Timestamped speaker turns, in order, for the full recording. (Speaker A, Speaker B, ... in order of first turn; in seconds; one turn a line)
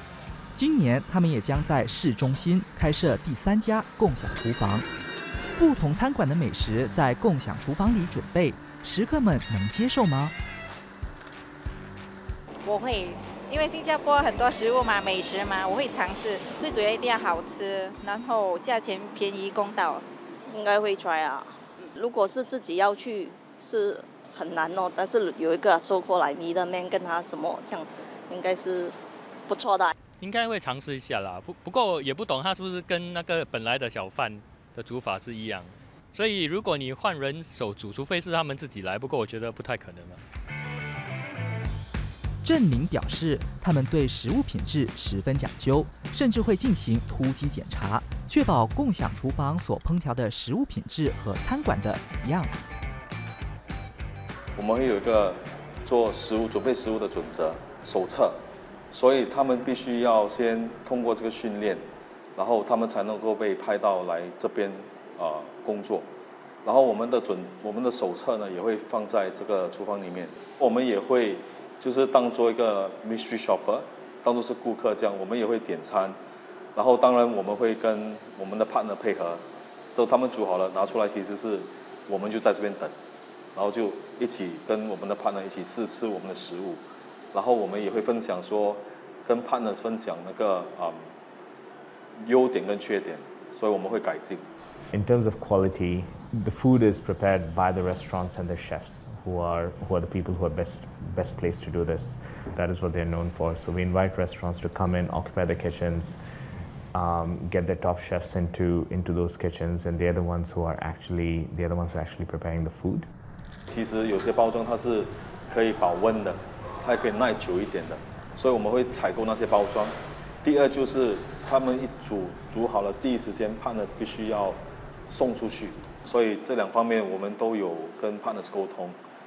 Speaker A: 0.5-4.9
Speaker A: 5.6-10.3
Speaker B: 12.6-20.0
Speaker C: 20.5-28.9
Speaker C: 29.5-29.9
Speaker D: 30.2-40.2
Speaker A: 42.4-52.6
Speaker E: 54.5-58.4
Speaker E: 58.9-61.8
Speaker E: 62.4-66.1
Speaker E: 66.6-76.2
Speaker E: 76.8-79.4
Speaker E: 79.9-82.9
Speaker E: 83.5-86.8
Speaker E: 87.3-91.0
Speaker E: 92.2-94.4
Speaker F: 94.9-106.2
Speaker F: 106.9-113.0
Speaker E: 113.7-129.0